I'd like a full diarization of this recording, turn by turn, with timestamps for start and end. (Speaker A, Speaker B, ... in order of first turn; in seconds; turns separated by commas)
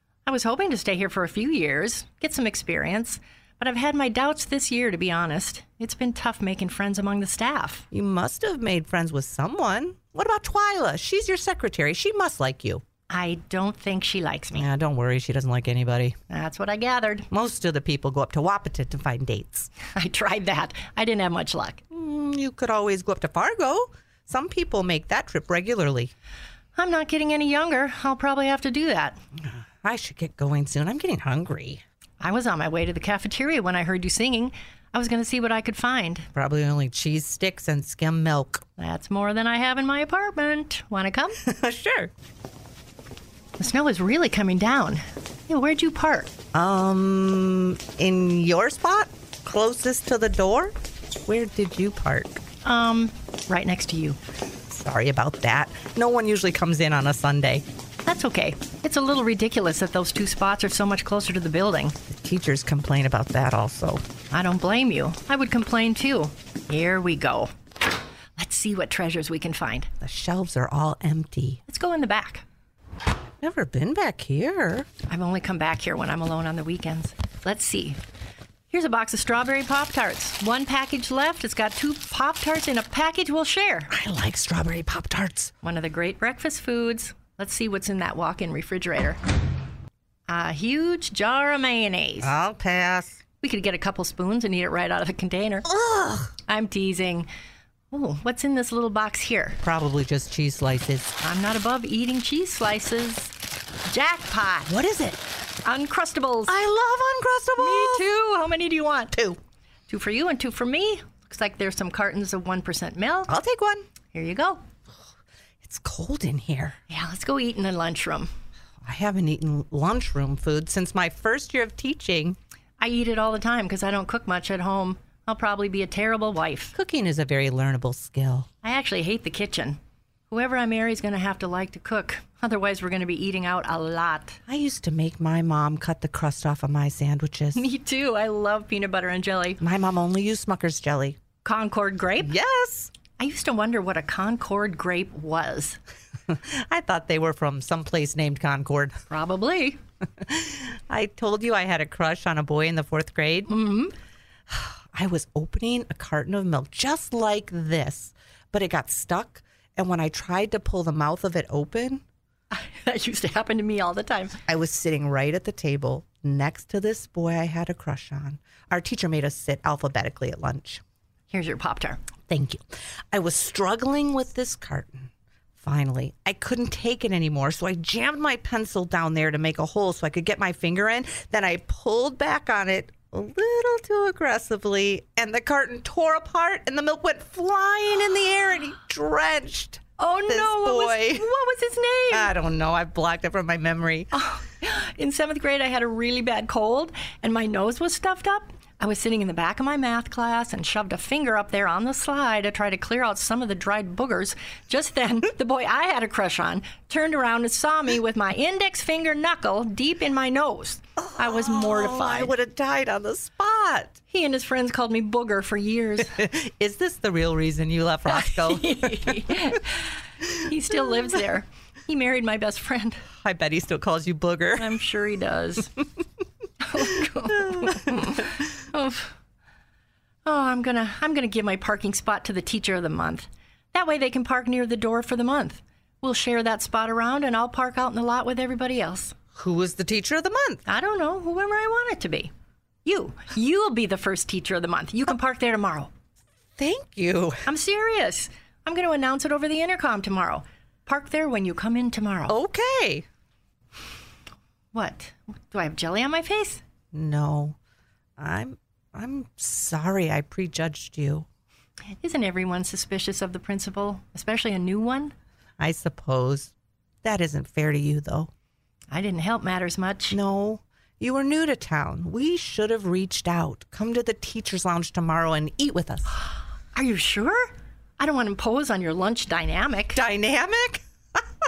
Speaker A: 0.2-7.8, Speaker B: 7.9-12.8, Speaker A: 13.1-14.7, Speaker B: 14.5-16.1, Speaker A: 16.3-17.3, Speaker B: 17.3-19.7, Speaker A: 19.9-21.8, Speaker B: 21.9-26.1, Speaker A: 26.8-29.2, Speaker B: 29.4-31.8, Speaker A: 32.2-36.3, Speaker B: 36.3-38.6, Speaker A: 38.8-41.4, Speaker B: 41.4-42.1, Speaker A: 43.6-46.3, Speaker B: 46.5-50.7, Speaker B: 51.2-52.4, Speaker A: 52.6-54.2, Speaker B: 54.7-57.6, Speaker A: 58.0-62.0, Speaker B: 62.1-64.0, Speaker A: 64.3-67.5, Speaker A: 68.4-69.9, Speaker B: 70.0-71.6, Speaker A: 71.7-72.4, Speaker B: 73.4-74.9, Speaker A: 75.1-78.0, Speaker A: 78.7-83.9, Speaker B: 83.9-85.5, Speaker A: 85.6-89.2, Speaker A: 90.3-92.3, Speaker B: 92.2-93.2, Speaker A: 93.4-95.7, Speaker B: 95.7-96.3, Speaker A: 96.5-97.3, Speaker A: 97.9-99.6, Speaker B: 99.6-101.1, Speaker A: 101.2-103.3, Speaker A: 103.9-104.7, Speaker B: 104.7-105.2, Speaker A: 105.6-106.5, Speaker B: 106.5-108.0, Speaker A: 107.6-109.1, Speaker A: 109.9-113.3, Speaker B: 113.3-113.8, Speaker A: 114.1-114.6, Speaker B: 115.6-116.8, Speaker A: 116.9-118.3, Speaker B: 118.8-122.4, Speaker A: 122.8-126.7, Speaker B: 126.7-128.5, Speaker A: 128.6-129.8, Speaker A: 130.3-134.4, Speaker B: 134.5-137.6, Speaker A: 137.5-139.6, Speaker B: 139.6-141.2, Speaker A: 141.4-142.3, Speaker B: 142.2-142.9, Speaker A: 143.2-145.8, Speaker B: 146.3-149.0, Speaker A: 149.1-149.8, Speaker B: 150.2-153.5, Speaker A: 153.5-153.9, Speaker B: 154.5-162.0, Speaker A: 162.5-164.3, Speaker B: 164.5-170.8, Speaker A: 171.3-172.0, Speaker B: 172.3-191.2, Speaker A: 190.0-192.3, Speaker B: 192.1-194.1, Speaker A: 194.1-212.3, Speaker B: 211.0-214.0, Speaker A: 214.1-216.2, Speaker B: 216.1-219.2, Speaker A: 218.1-223.0, Speaker B: 223.2-224.8, Speaker A: 224.6-225.7, Speaker A: 226.6-229.1, Speaker B: 227.4-228.0, Speaker A: 230.2-239.1, Speaker B: 239.3-240.6, Speaker A: 240.7-242.3, Speaker A: 242.8-245.9, Speaker B: 246.6-247.4, Speaker A: 247.4-252.3, Speaker B: 252.3-253.0, Speaker A: 254.7-256.6, Speaker B: 256.9-257.6, Speaker B: 258.2-261.2, Speaker A: 262.0-265.1, Speaker B: 265.6-268.3, Speaker A: 268.9-270.2, Speaker B: 270.1-276.1, Speaker A: 276.7-280.0, Speaker B: 279.9-281.2